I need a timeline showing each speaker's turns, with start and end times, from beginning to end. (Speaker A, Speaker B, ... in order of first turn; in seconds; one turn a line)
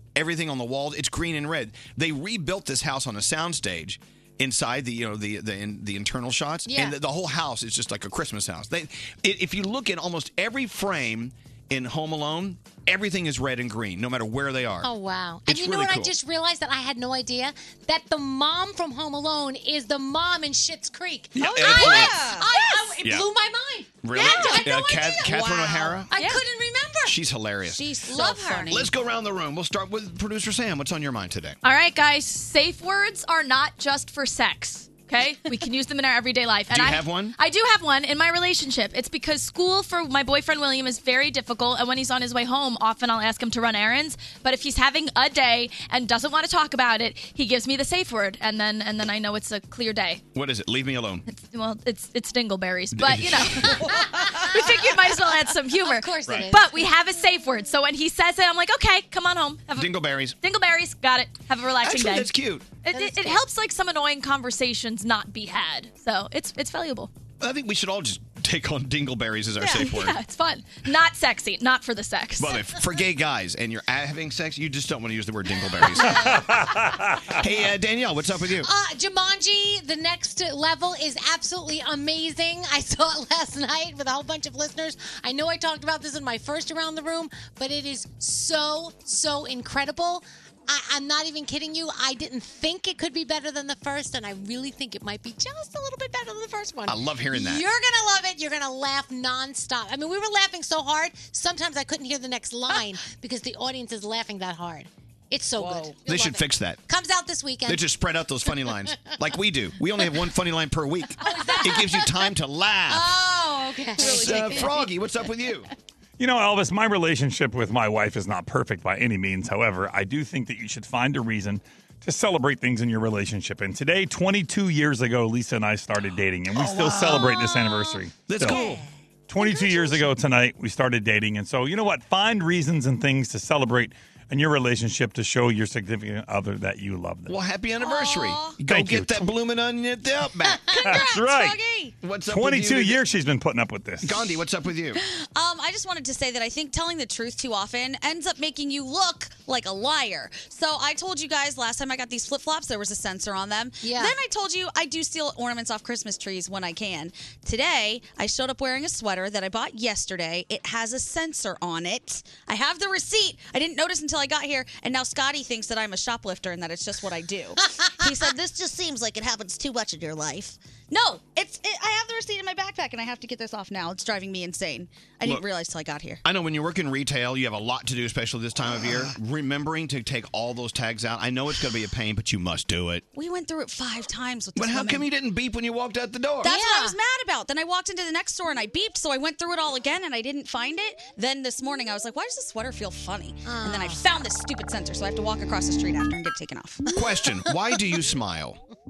Speaker A: 0.1-14.9
Speaker B: 6.7-7.0
Speaker B: 14.8-25.5
Speaker A: 15.4-16.2
Speaker A: 21.3-22.2
Speaker C: 21.4-22.7
Speaker A: 23.0-23.3
Speaker A: 24.0-26.1
Speaker C: 24.1-26.4
Speaker B: 26.1-27.1
Speaker A: 27.1-27.9
Speaker C: 27.7-28.9
Speaker B: 28.1-28.8
Speaker A: 28.7-31.6
Speaker D: 31.6-50.2
Speaker A: 36.7-37.4
Speaker A: 50.3-51.2
Speaker D: 51.3-53.9
Speaker A: 52.9-53.9
Speaker D: 54.5-62.3
Speaker B: 55.8-56.9
Speaker A: 56.3-56.5
Speaker A: 59.7-60.4
Speaker A: 61.8-62.8
Speaker D: 62.8-67.1
Speaker B: 62.9-63.4
Speaker A: 67.4-70.2
Speaker D: 69.6-72.7
Speaker A: 72.4-76.5
Speaker C: 76.0-76.3
Speaker E: 76.3-77.4
Speaker A: 77.3-78.7
Speaker B: 78.6-107.9
Speaker A: 96.9-97.7
Speaker C: 105.6-106.0
Speaker A: 106.0-106.8
Speaker A: 107.7-113.1
Speaker B: 111.2-112.2
Speaker B: 112.9-114.8
Speaker A: 114.0-115.7
Speaker C: 114.0-114.9
Speaker E: 116.2-128.6
Speaker A: 126.8-127.3
Speaker B: 127.3-127.9
Speaker A: 128.3-128.8
Speaker C: 128.4-128.9
Speaker E: 129.3-137.4
Speaker A: 137.3-141.1
Speaker C: 137.8-138.6
Speaker E: 138.7-139.3
Speaker C: 140.7-141.9
Speaker E: 140.9-141.6
Speaker A: 142.0-143.0
Speaker E: 142.3-144.2
Speaker A: 144.0-145.0
Speaker C: 145.0-176.2
Speaker B: 153.8-154.2
Speaker A: 176.2-183.0
Speaker C: 183.1-185.1
Speaker A: 184.6-186.6
Speaker C: 186.4-196.8
Speaker B: 186.4-187.0
Speaker B: 193.4-194.1
Speaker B: 196.9-197.2
Speaker A: 196.9-198.6